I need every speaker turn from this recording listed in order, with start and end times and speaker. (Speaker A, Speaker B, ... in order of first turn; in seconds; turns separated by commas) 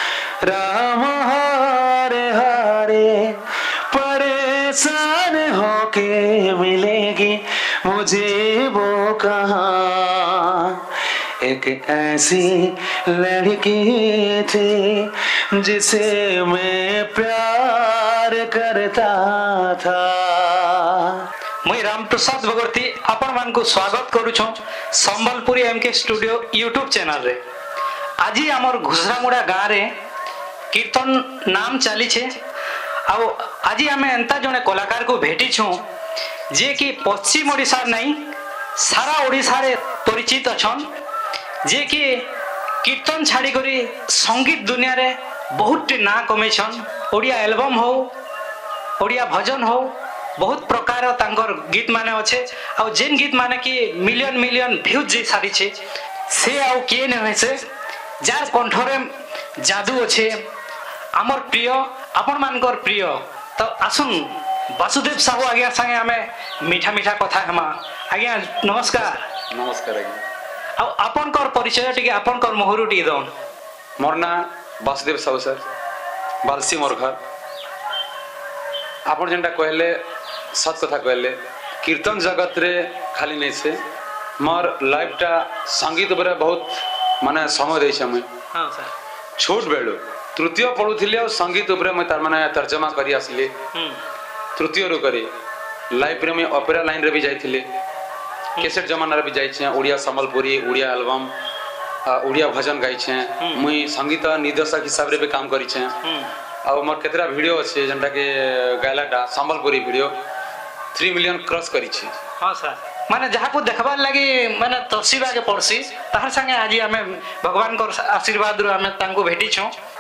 Speaker A: 0.4-3.4, Speaker A: 3.9-10.8, Speaker A: 11.4-21.2, Speaker B: 21.6-27.4, Speaker B: 28.2-29.9, Speaker B: 30.7-32.3, Speaker B: 33.1-35.8, Speaker B: 36.5-38.2, Speaker B: 38.8-40.9, Speaker B: 41.6-42.3, Speaker B: 42.8-48.1, Speaker B: 49.0-55.8, Speaker B: 56.3-57.6, Speaker B: 58.2-59.1, Speaker B: 59.6-60.3, Speaker B: 61.2-69.2, Speaker A: 69.5-70.2, Speaker B: 70.8-73.3, Speaker A: 74.0-75.6, Speaker A: 76.4-77.2, Speaker A: 79.1-80.0, Speaker A: 80.5-83.8, Speaker A: 84.4-88.3, Speaker B: 88.5-88.9, Speaker A: 89.4-93.5, Speaker B: 93.7-94.0, Speaker A: 94.6-95.3, Speaker A: 95.9-97.6, Speaker A: 98.6-101.3, Speaker A: 102.1-105.9, Speaker B: 106.0-106.3, Speaker A: 106.7-110.1, Speaker A: 110.9-112.1, Speaker B: 112.4-119.7